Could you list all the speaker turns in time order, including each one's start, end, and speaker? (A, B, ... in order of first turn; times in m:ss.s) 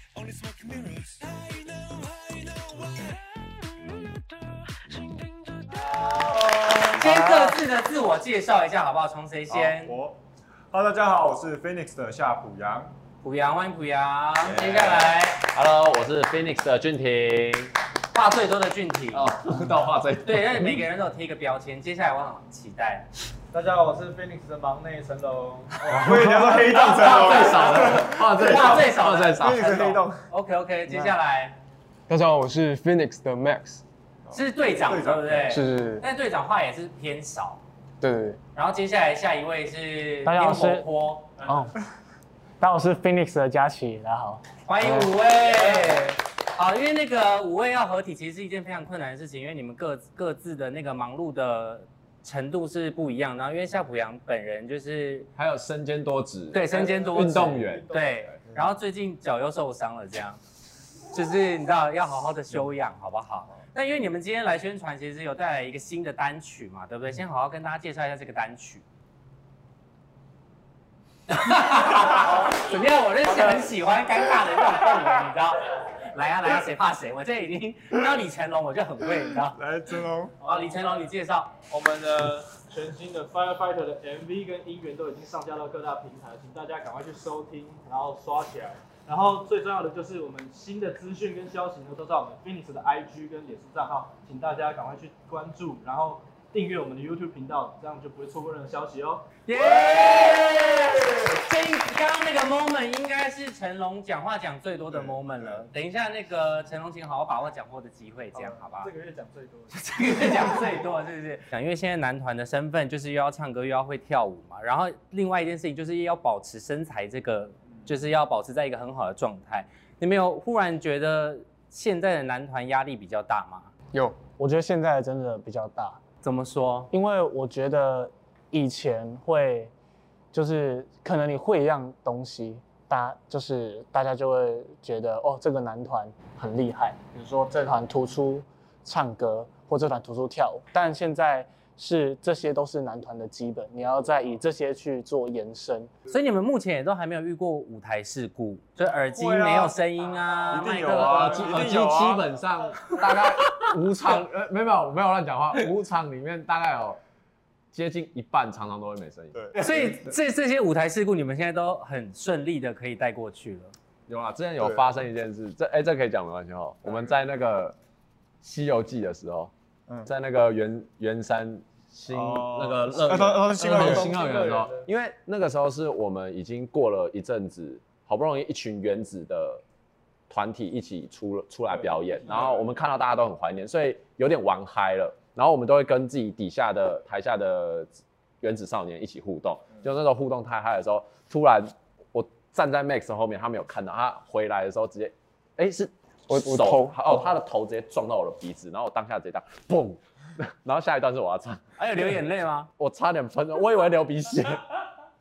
0:06.9-0:10.0 A
0:09.5-0:10.2 B
0:10.7-0:12.9 B
0:13.2-0:15.5 A
0:14.4-0:17.7 C
0:18.1-0:19.3 A
0:19.1-0:20.8 C
0:20.2-0:23.1 A
0:23.5-0:26.1 D
0:25.9-0:30.2 B
0:26.7-0:31.6 A
0:27.0-0:29.6 C
0:32.1-0:33.8 E
0:34.3-0:35.5 B
0:34.3-0:37.6 A
0:35.5-0:36.0 E
0:38.0-0:38.4 E
0:38.6-0:41.4 A
0:40.2-0:40.9 F
0:41.5-0:41.7 F
0:42.6-0:45.2 F
0:44.6-0:55.3 A
0:55.4-0:57.9 C
0:56.5-1:00.4 A
1:01.1-1:08.8 A
1:11.3-1:19.6 A
1:19.5-1:20.4 B
1:20.4-1:21.1 D
1:20.4-1:21.6 A
1:21.7-1:39.3 D
1:39.4-1:48.9 A
1:44.9-1:45.6 B
1:48.3-1:49.8 D
1:49.7-2:03.7 A
2:03.9-2:04.2 E
2:04.4-2:06.0 F
2:06.2-2:06.9 A
2:06.9-2:09.7 F
2:10.3-2:25.9 F
2:26.1-2:31.7 A
2:29.1-2:29.8 B
2:30.5-2:32.2 B
2:31.3-2:37.0 C
2:37.7-2:39.3 C
2:39.5-2:43.7 A
2:44.1-2:47.8 C
2:44.6-2:44.9 B
2:48.4-2:49.5 C
2:50.1-2:59.6 C
2:52.1-2:54.1 B
2:53.8-2:54.8 D
3:00.3-3:15.9 C
3:01.7-3:02.6 B
3:16.3-3:17.3 E
3:16.4-3:21.6 C
3:21.8-3:22.7 A
3:22.8-3:24.6 C